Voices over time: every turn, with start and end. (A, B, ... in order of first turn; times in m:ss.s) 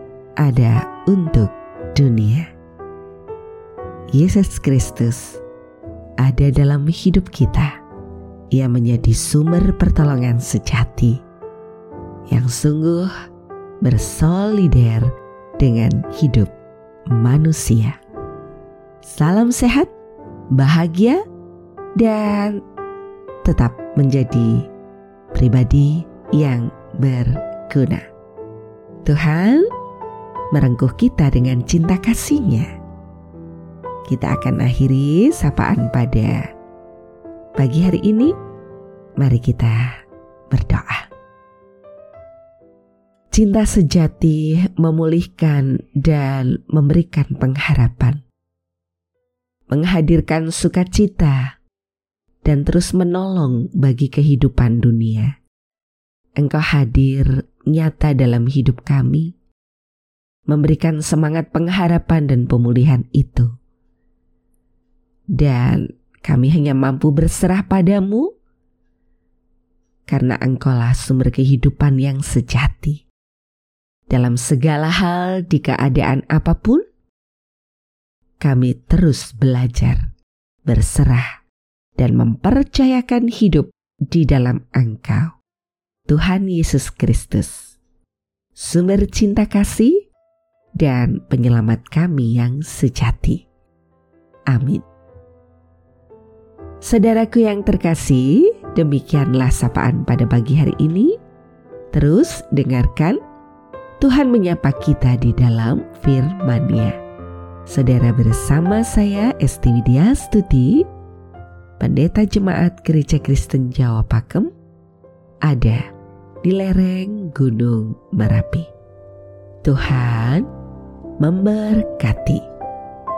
0:00.4-0:02.5 A
0:04.1-0:05.4 A
0:06.2-0:07.8 A
0:08.5-0:11.2 A
0:12.3-0:13.1 A
0:13.8-0:16.5 A
0:17.1-0:18.0 A
0:19.0-0:19.9 A
0:20.5-0:21.2 A
0:22.0-0:22.6 A
0:23.4-0:24.6 A
0:25.3-0:28.0 A
0:29.0-0:29.7 A
0:30.5-0:32.7 A
0:34.1-0:36.4 A
0:37.6-0:38.3 A
0:39.2-0:40.0 A
0:40.5-0:41.1 A
0:43.3-0:48.2 A
0:49.7-0:51.5 A
0:52.4-0:55.3 A
0:56.4-0:59.3 A
1:00.5-1:03.5 A
1:05.4-1:08.3 A
1:10.1-1:13.0 A
1:14.1-1:16.8 A
1:18.4-1:20.0 A
1:20.7-1:21.3 A
1:22.0-1:25.4 A
1:26.1-1:27.7 A
1:28.6-1:30.0 A
1:30.8-1:33.4 A
1:34.5-1:34.8 A
1:36.8-1:41.1 A
1:41.9-1:43.2 A
1:44.0-1:47.0 A
1:47.7-1:50.8 A
1:51.8-1:54.5 A
1:55.4-1:55.8 A
1:56.4-1:58.7 A
1:59.6-2:00.5 A
2:01.2-2:02.4 A